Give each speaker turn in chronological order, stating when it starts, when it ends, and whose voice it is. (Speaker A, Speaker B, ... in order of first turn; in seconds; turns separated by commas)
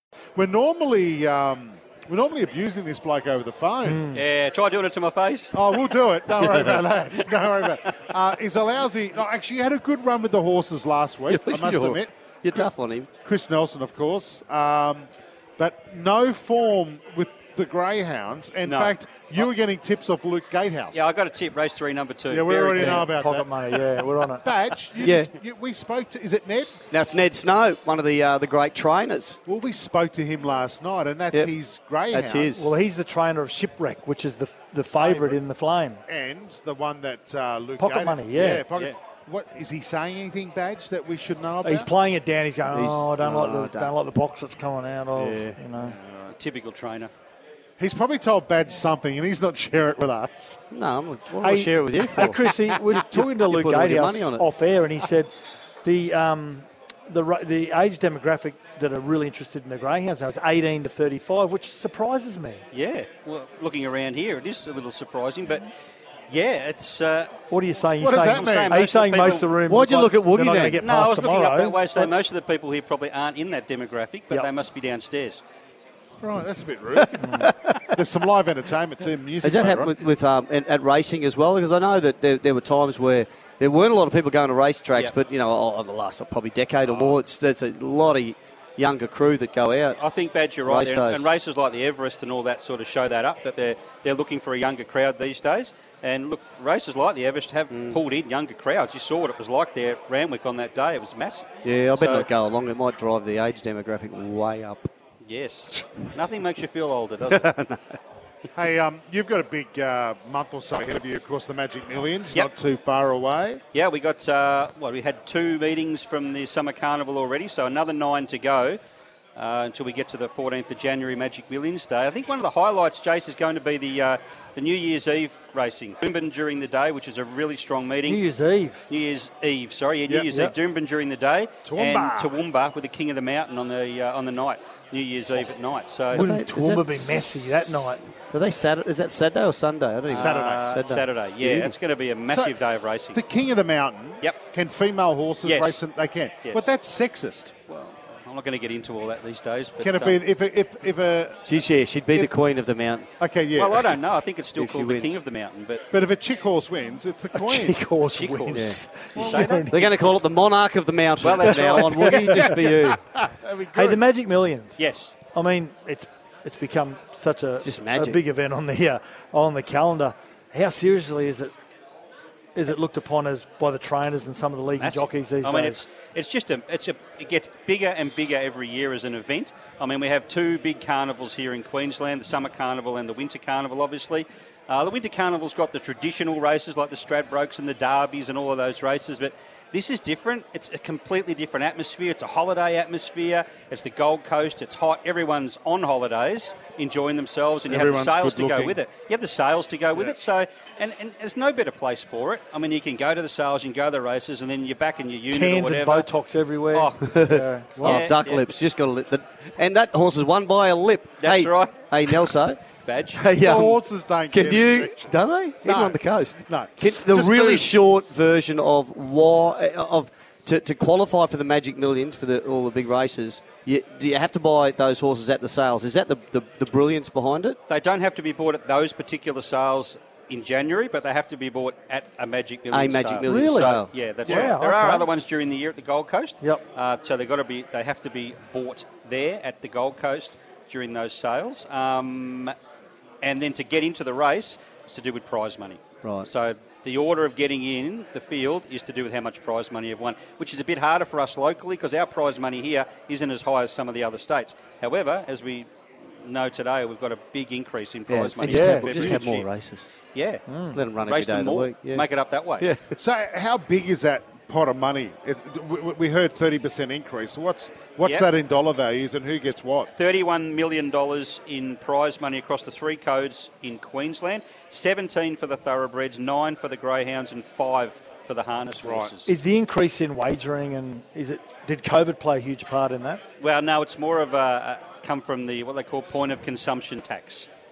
Speaker A: 0.4-4.1, Speaker B: 3.9-4.2, Speaker C: 4.1-5.8, Speaker A: 5.5-12.7, Speaker C: 6.3-6.8, Speaker D: 11.3-13.1, Speaker A: 13.2-21.1, Speaker C: 18.6-19.5, Speaker C: 20.9-23.1, Speaker A: 22.3-23.5, Speaker B: 22.8-24.5, Speaker A: 24.4-26.8, Speaker D: 25.0-25.3, Speaker D: 26.9-29.4, Speaker A: 29.5-32.6, Speaker D: 32.1-32.7, Speaker B: 32.5-36.0, Speaker A: 35.0-35.4, Speaker A: 36.1-41.9, Speaker B: 37.8-38.7, Speaker B: 41.6-46.0, Speaker D: 42.7-44.0, Speaker D: 45.1-45.6, Speaker C: 45.9-47.1, Speaker A: 47.8-50.6, Speaker D: 50.7-54.5, Speaker B: 51.4-55.3, Speaker B: 55.8-62.6, Speaker C: 62.7-65.7, Speaker C: 66.3-67.3, Speaker B: 67.5-72.1, Speaker A: 68.0-69.3, Speaker C: 68.3-69.5, Speaker D: 69.6-70.8, Speaker C: 70.8-75.4, Speaker A: 76.2-79.9, Speaker D: 76.9-78.0, Speaker B: 77.2-77.5, Speaker D: 79.4-90.0, Speaker A: 86.8-87.2, Speaker C: 90.0-102.3, Speaker D: 90.6-91.3, Speaker D: 97.7-98.0, Speaker D: 101.6-104.9, Speaker C: 105.2-107.5, Speaker D: 107.3-108.0, Speaker A: 108.5-113.6, Speaker C: 113.7-118.8, Speaker C: 119.4-128.2, Speaker B: 128.0-128.9, Speaker C: 128.9-136.3, Speaker B: 130.3-130.6, Speaker A: 131.6-132.4, Speaker D: 136.1-137.6, Speaker B: 136.1-138.0, Speaker D: 138.3-141.8, Speaker C: 140.1-143.2, Speaker A: 140.1-140.7, Speaker A: 142.3-142.6, Speaker A: 143.1-147.5, Speaker C: 145.4-145.8, Speaker C: 146.4-146.7, Speaker C: 147.7-150.2, Speaker A: 149.8-151.4, Speaker D: 151.5-153.1, Speaker A: 153.2-154.0, Speaker C: 153.5-155.8, Speaker D: 154.6-155.2, Speaker A: 155.9-157.8, Speaker B: 157.3-159.9, Speaker C: 158.1-160.0, Speaker D: 158.5-163.0, Speaker C: 161.2-162.2, Speaker B: 161.4-162.6, Speaker A: 162.2-164.0, Speaker B: 163.7-171.5, Speaker C: 164.8-165.1, Speaker D: 167.6-168.2, Speaker B: 172.6-175.8, Speaker C: 174.8-206.1, Speaker A: 197.7-198.8, Speaker B: 205.3-207.9, Speaker C: 206.7-207.0, Speaker D: 207.1-212.6, Speaker A: 207.8-208.1, Speaker C: 207.8-208.4, Speaker C: 211.2-212.3, Speaker C: 212.8-213.2, Speaker D: 213.1-227.6, Speaker A: 213.3-217.8, Speaker C: 227.7-242.6, Speaker D: 232.7-234.0, Speaker B: 233.2-235.1, Speaker A: 234.3-234.5, Speaker C: 243.2-255.7, Speaker D: 246.0-246.3, Speaker C: 256.2-259.5, Speaker D: 258.1-259.9, Speaker B: 258.4-259.3, Speaker C: 260.1-260.4, Speaker B: 260.5-260.8, Speaker D: 260.7-263.0, Speaker C: 261.0-262.7, Speaker A: 263.0-269.9, Speaker C: 268.0-268.3, Speaker C: 270.0-279.3, Speaker A: 278.8-279.1, Speaker B: 279.3-283.2, Speaker C: 283.4-287.5